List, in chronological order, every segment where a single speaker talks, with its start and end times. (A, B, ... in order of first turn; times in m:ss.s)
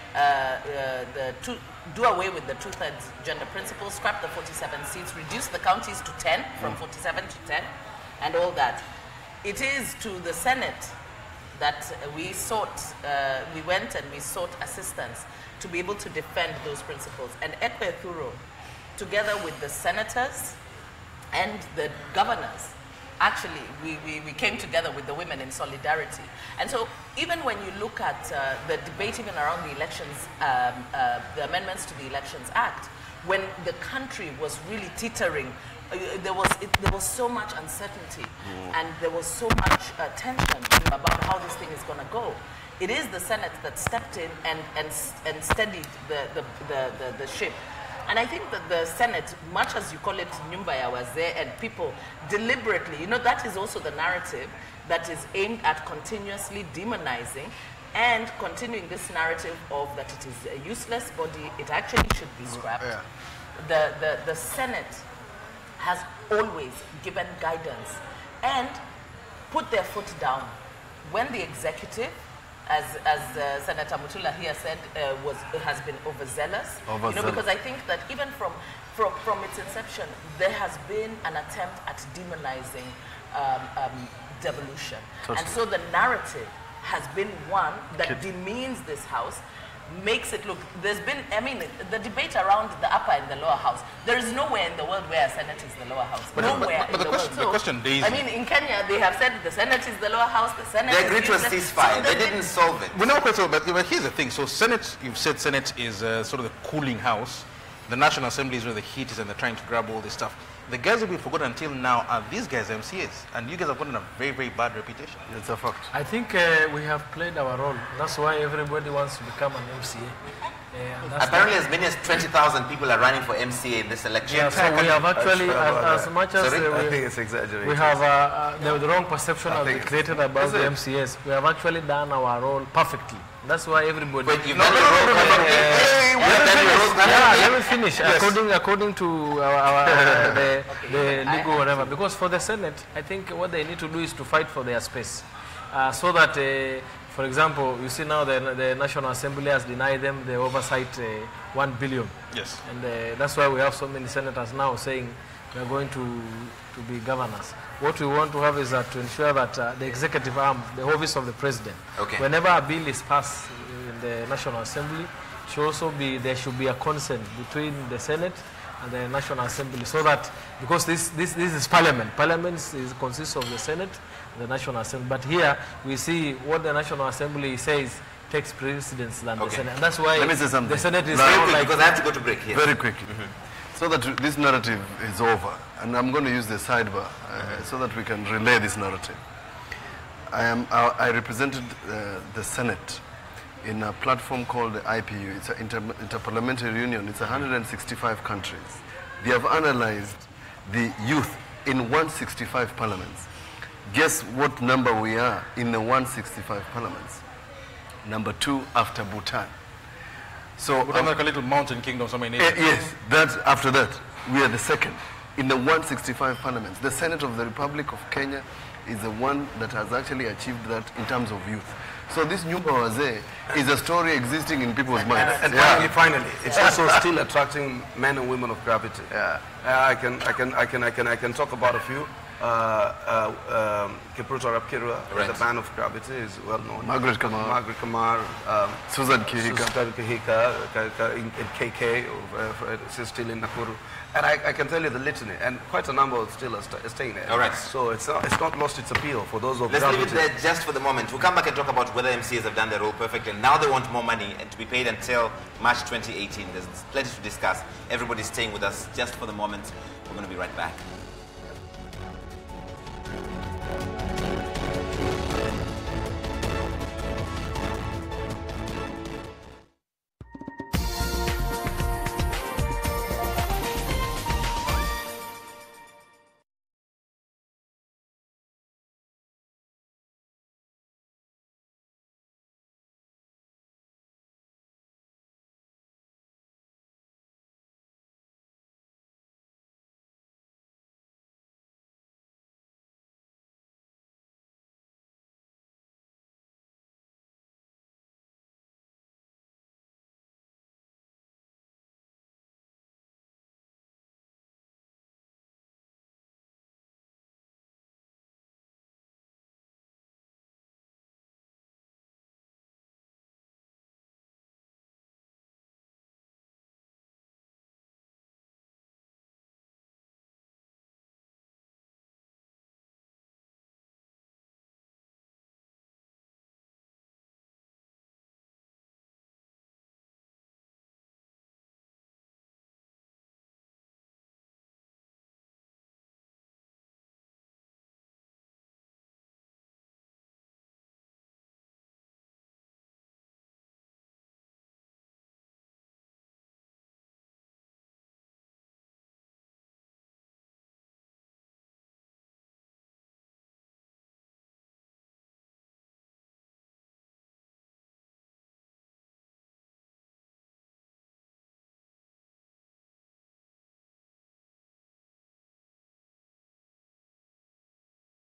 0:00.1-0:08.8 A
0:09.4-0:11.0 A
0:11.6-0:18.4 A
0:19.0-0:20.6 A
0:21.3-1:03.0 A
1:02.7-1:03.0 B
1:03.6-1:05.1 A
1:05.8-1:08.8 A
1:09.5-1:42.5 A
1:16.9-1:17.4 B
1:25.2-1:25.6 B
1:36.4-1:38.2 C
1:40.9-1:43.0 D
1:42.9-1:55.2 C
1:55.3-1:55.9 B
1:55.9-2:00.2 E
2:00.7-2:01.5 E
2:01.2-2:05.0 D
2:04.3-2:07.0 E
2:04.5-2:06.2 F
2:06.4-2:06.8 D
2:06.7-2:08.0 F
2:07.6-2:14.6 E
2:09.5-2:10.8 F
2:14.2-2:17.6 D
2:14.4-2:17.3 C
2:15.8-2:17.1 F
2:16.2-3:01.8 E
2:18.0-2:18.3 C
2:20.6-2:21.9 A
2:32.3-2:32.6 C
2:42.0-2:42.2 D
3:00.2-3:01.7 B
3:01.1-3:03.3 D
3:02.5-3:03.1 B
3:03.7-3:09.2 B
3:10.3-3:13.0 B
3:13.6-3:23.3 B
3:23.9-3:27.2 B
3:28.0-3:29.5 B
3:30.6-3:31.2 B
3:30.8-3:32.8 C
3:32.4-3:45.9 B
3:45.1-3:45.7 A
3:45.2-4:10.3 F
3:49.1-3:49.4 B
3:55.1-3:55.4 D
3:56.8-3:57.6 B
3:58.9-3:59.7 B
4:07.3-4:07.7 D
4:09.7-4:20.8 D